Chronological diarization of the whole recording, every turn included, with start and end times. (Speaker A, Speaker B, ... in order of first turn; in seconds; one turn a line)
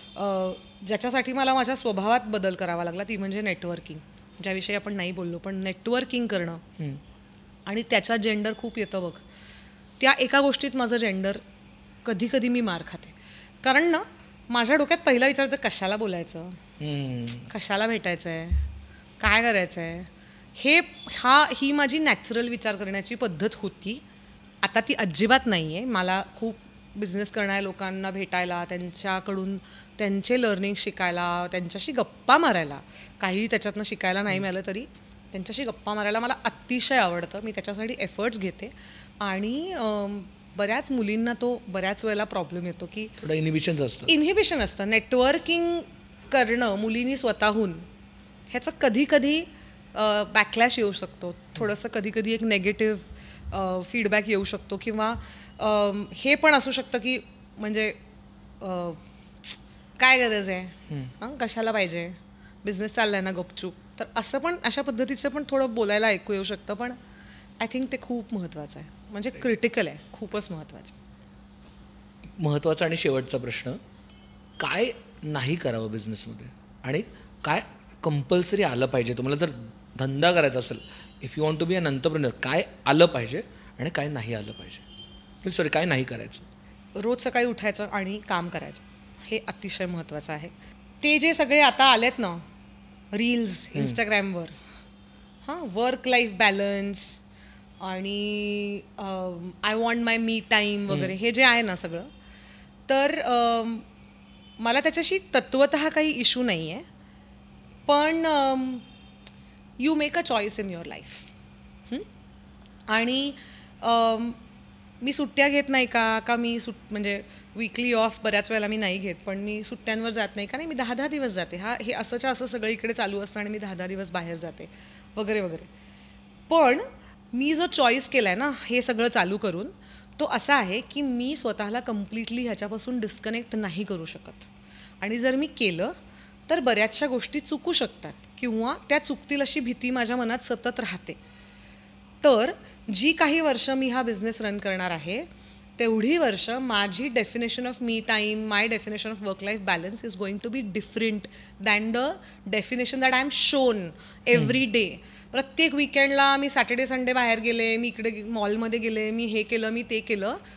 Speaker A: 0.1-6.7
Speaker A: 7.7-9.2
Speaker A: 10.0-11.4
Speaker A: 12.1-16.6
Speaker B: 16.8-17.5
Speaker A: 17.5-18.7
Speaker A: 19.2-24.0
Speaker A: 24.6-43.1
Speaker B: 43.2-44.1
Speaker A: 44.1-47.9
Speaker A: 48.5-58.0
Speaker A: 58.6-67.0
Speaker A: 67.6-71.0
Speaker B: 72.4-73.8
Speaker B: 74.6-84.8
Speaker B: 85.4-86.5
Speaker A: 87.0-92.5
Speaker A: 93.1-94.5
Speaker A: 95.5-97.2
Speaker A: 97.8-102.1
Speaker A: 102.9-103.9
Speaker A: 104.6-106.8
Speaker A: 107.9-108.8
Speaker A: 109.8-111.3
Speaker A: 112.9-114.4
Speaker A: 115.0-125.7
Speaker A: 126.5-134.5
Speaker A: 135.0-135.9
Speaker A: 136.5-141.2
Speaker A: 142.2-145.3
Speaker A: 145.8-160.4